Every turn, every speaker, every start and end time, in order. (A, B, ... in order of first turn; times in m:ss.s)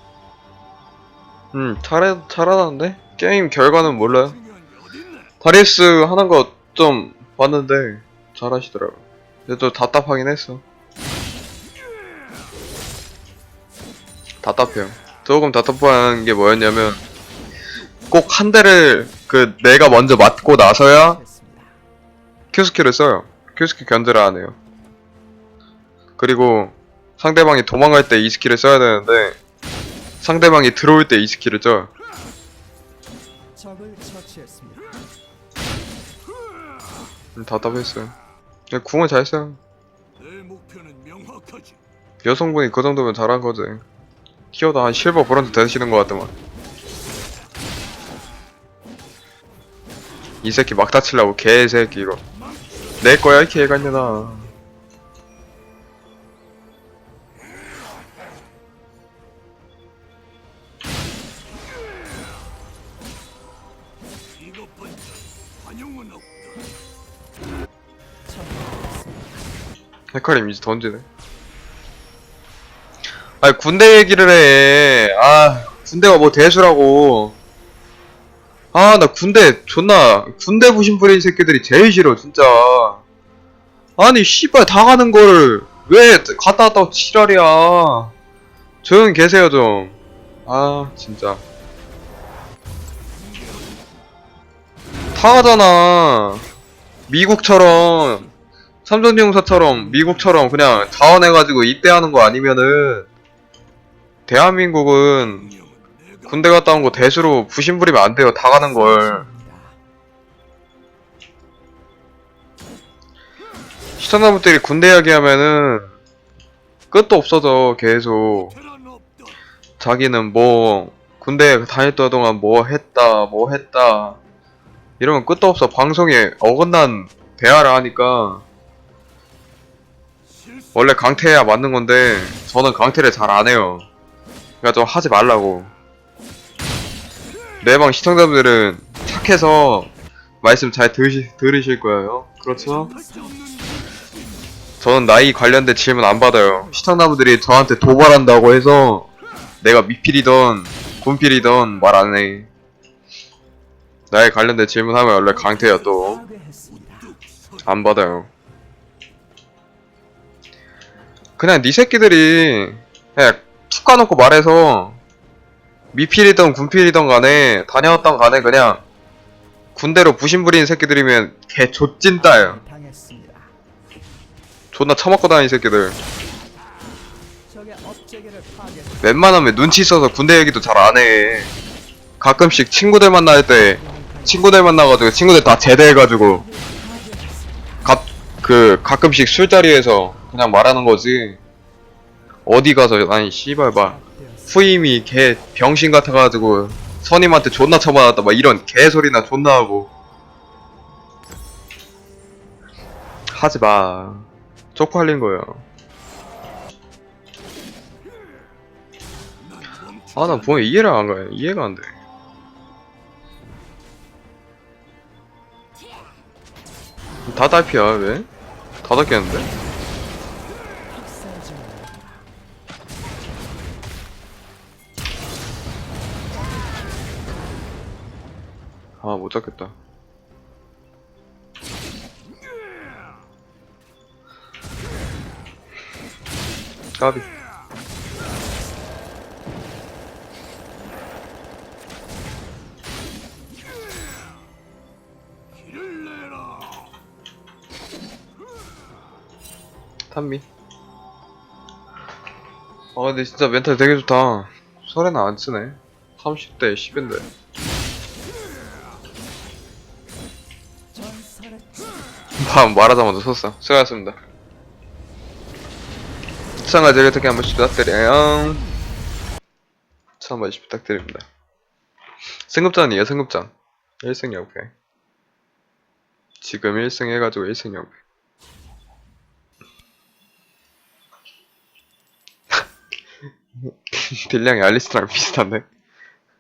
0:01.5-0:04.4 A
0:05.4-0:10.6 A
0:14.4-0:17.0 A
0:18.1-0:21.2 A
0:20.5-0:21.8 B
0:22.5-0:24.6 A
0:26.2-0:29.4 A
0:30.2-0:31.9 A
0:33.5-0:34.9 B
0:37.4-0:38.2 A
0:38.7-0:39.6 A
0:40.2-0:41.8 C
0:42.2-0:43.8 A
0:44.5-0:46.3 A
0:50.4-0:52.2 A
0:53.0-0:54.5 A
1:04.4-1:06.6 C
1:08.3-1:09.5 B
1:10.1-1:11.0 A
1:13.4-1:17.4 A
1:18.7-1:23.0 A
1:24.0-1:28.1 A
1:28.8-1:31.4 A
1:33.3-1:33.6 C
1:35.2-1:36.5 A
1:37.1-1:38.3 A
1:38.9-1:43.1 A
1:44.3-1:45.5 A
1:45.5-1:46.3 C
1:46.3-1:49.3 A
1:48.6-1:49.8 B
1:54.0-1:55.9 A
1:56.9-1:58.6 A
1:58.8-1:59.3 C
1:59.8-2:04.2 A
2:05.0-2:08.4 A
2:10.8-2:13.9 A
2:14.6-2:15.7 A
2:17.6-2:19.9 A
2:20.4-2:22.9 A
2:22.7-2:23.4 B
2:24.8-2:29.1 A
2:26.4-2:27.6 B
2:29.6-2:32.5 A
2:34.1-2:36.2 A
2:35.3-2:37.2 B
2:37.2-2:37.6 C
2:37.6-2:38.3 A
2:41.4-2:45.0 A
2:45.9-2:48.8 A
2:49.8-2:52.6 A
2:52.2-2:53.5 B
2:54.7-2:56.0 A
2:57.5-2:59.4 B
2:59.0-3:01.5 A
3:02.2-3:06.4 A
3:03.7-3:05.0 B
3:06.0-3:07.9 B
3:07.8-3:11.4 A
3:12.5-3:14.0 A
3:13.7-3:14.7 B
3:14.5-3:19.9 A
3:23.3-3:25.6 A
3:29.5-3:30.6 C
3:30.2-3:31.9 A
3:37.3-3:38.3 A
3:38.8-3:39.5 A
3:40.9-3:42.2 B
3:49.0-3:49.8 A
3:57.0-3:57.3 A
4:05.8-4:06.7 C
4:10.1-4:10.4 A
4:13.0-4:17.3 A
4:20.9-4:22.0 B
4:22.4-4:24.2 A
4:26.6-4:28.6 A
4:30.2-4:31.2 A
4:32.5-4:34.7 A
4:36.4-4:37.9 A
4:43.6-4:45.7 A